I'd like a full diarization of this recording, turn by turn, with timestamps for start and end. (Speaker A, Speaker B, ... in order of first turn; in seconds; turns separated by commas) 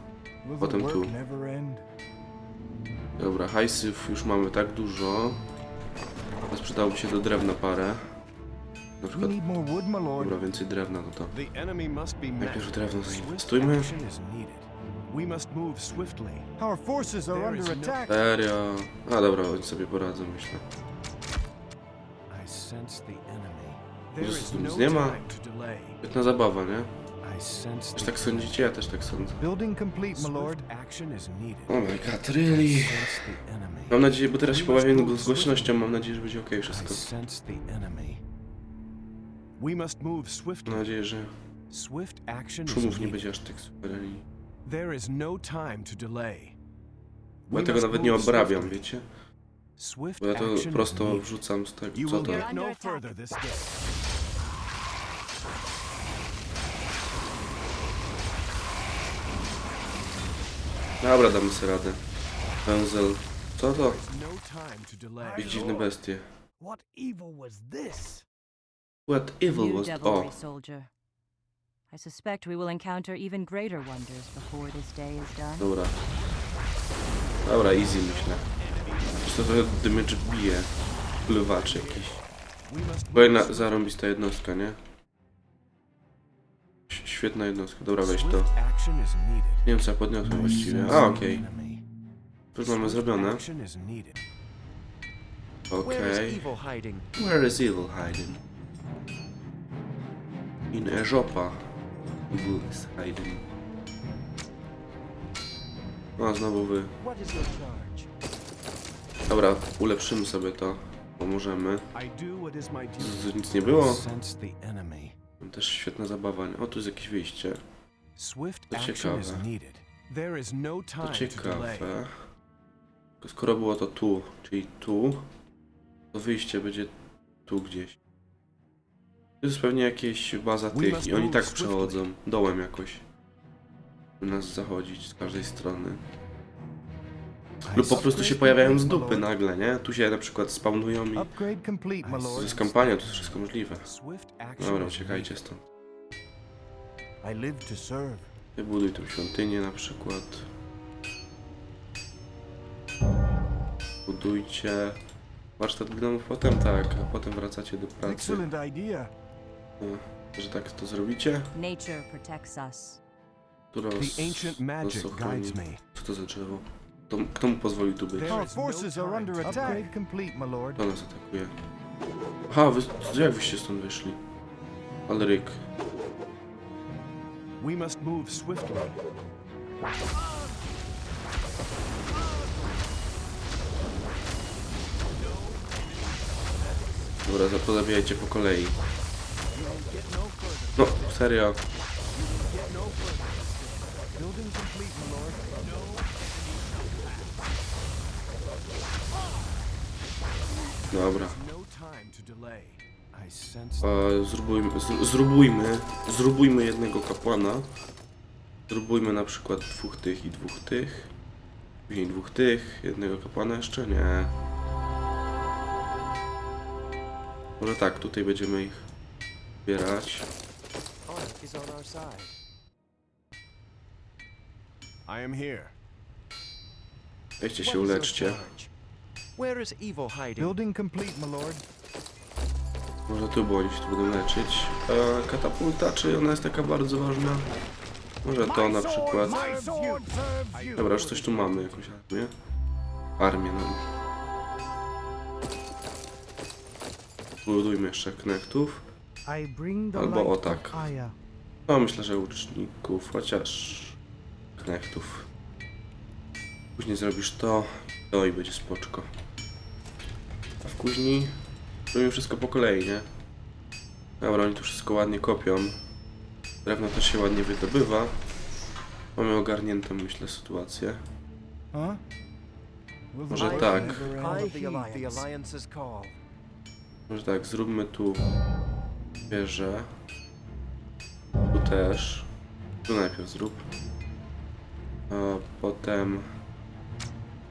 Speaker A: 0.4-1.8, Speaker B: 0.6-1.1, Speaker B: 3.2-5.4, Speaker B: 6.5-8.0, Speaker B: 9.0-9.4, Speaker A: 9.1-10.4, Speaker B: 10.2-11.3, Speaker C: 11.3-16.5, Speaker B: 12.4-13.9, Speaker A: 16.6-18.2, Speaker C: 17.3-18.1, Speaker B: 18.1-20.6, Speaker C: 22.3-26.0, Speaker B: 24.2-25.2, Speaker B: 26.0-26.9, Speaker C: 27.2-28.6, Speaker B: 28.0-29.4, Speaker A: 29.4-30.6, Speaker C: 30.1-35.8, Speaker B: 31.7-33.3, Speaker B: 33.9-37.0, Speaker C: 36.7-38.2, Speaker C: 39.6-40.9, Speaker B: 40.7-41.3, Speaker C: 41.7-43.2, Speaker B: 42.7-44.2, Speaker C: 44.6-46.6, Speaker C: 47.5-48.9, Speaker B: 47.5-49.1, Speaker C: 49.8-51.3, Speaker B: 50.2-52.5, Speaker C: 51.9-53.8, Speaker D: 52.2-53.1, Speaker B: 61.0-62.0, Speaker B: 62.6-64.0, Speaker C: 63.7-65.9, Speaker E: 65.2-65.7, Speaker B: 65.4-66.2, Speaker E: 66.6-68.2, Speaker B: 69.1-70.3, Speaker D: 69.5-70.9, Speaker D: 71.9-75.7, Speaker B: 75.6-76.0, Speaker B: 77.4-78.4, Speaker C: 77.5-79.3, Speaker B: 79.2-80.7, Speaker B: 81.2-82.2, Speaker C: 81.3-83.8, Speaker B: 83.2-84.8, Speaker B: 86.9-88.5, Speaker C: 88.0-89.7, Speaker B: 89.7-91.5, Speaker C: 90.2-91.8, Speaker B: 92.5-93.4, Speaker C: 92.6-94.2, Speaker B: 95.7-96.5, Speaker F: 95.8-97.1, Speaker B: 97.2-98.4, Speaker B: 100.7-101.7, Speaker B: 102.3-103.4, Speaker B: 106.2-106.9, Speaker F: 107.0-108.1, Speaker B: 109.3-111.8, Speaker C: 111.9-115.2, Speaker B: 113.0-114.0, Speaker B: 115.4-117.6, Speaker C: 118.2-121.9, Speaker B: 118.7-119.5, Speaker B: 121.0-122.1, Speaker B: 123.2-125.3, Speaker B: 126.1-126.9, Speaker B: 127.5-128.0, Speaker B: 129.4-133.0, Speaker C: 130.7-132.0, Speaker B: 134.2-136.0, Speaker C: 137.6-138.5, Speaker B: 137.7-141.3, Speaker A: 137.8-139.3, Speaker A: 141.1-142.6, Speaker C: 142.0-145.3, Speaker B: 142.3-143.9, Speaker B: 144.6-145.6, Speaker A: 147.2-148.3, Speaker B: 148.6-150.5, Speaker B: 154.1-155.0, Speaker B: 155.6-158.4, Speaker A: 158.0-159.1, Speaker B: 159.8-161.5, Speaker D: 161.5-163.0, Speaker B: 163.7-168.4, Speaker C: 164.0-165.8, Speaker C: 168.1-169.9, Speaker A: 168.3-170.8, Speaker B: 170.8-171.5, Speaker B: 172.5-174.2, Speaker B: 175.1-175.6, Speaker C: 177.6-179.0, Speaker C: 185.2-187.1, Speaker B: 187.3-188.8, Speaker C: 189.5-191.3, Speaker B: 190.8-191.6, Speaker C: 192.1-194.2, Speaker A: 194.2-195.5, Speaker C: 195.5-197.6, Speaker C: 200.8-204.1, Speaker B: 200.9-201.4, Speaker B: 203.8-207.7, Speaker B: 208.7-211.1, Speaker B: 211.9-214.3, Speaker B: 217.6-218.9, Speaker B: 219.7-220.3, Speaker F: 221.1-222.3, Speaker C: 225.1-225.8, Speaker B: 227.4-228.5, Speaker F: 227.6-228.7, Speaker F: 229.4-230.6, Speaker A: 230.4-231.6, Speaker B: 233.1-237.5, Speaker B: 238.2-239.5, Speaker E: 238.4-240.9, Speaker C: 239.2-239.7, Speaker A: 239.2-240.0, Speaker C: 240.5-241.9, Speaker B: 240.8-242.3, Speaker B: 243.2-243.8, Speaker B: 247.4-248.8, Speaker E: 249.3-251.2, Speaker B: 249.9-250.8, Speaker B: 251.7-254.0, Speaker B: 254.6-255.3, Speaker B: 256.8-259.1, Speaker B: 260.6-261.4, Speaker B: 261.9-263.1, Speaker B: 264.2-265.8, Speaker B: 266.6-268.2, Speaker B: 269.2-271.0, Speaker A: 271.7-272.0, Speaker A: 273.1-274.6, Speaker B: 273.3-274.1, Speaker C: 273.4-275.2, Speaker F: 274.1-276.2, Speaker E: 274.3-274.9, Speaker B: 277.1-278.3, Speaker B: 279.3-279.9, Speaker B: 281.5-282.3, Speaker B: 282.9-283.7, Speaker B: 285.1-286.3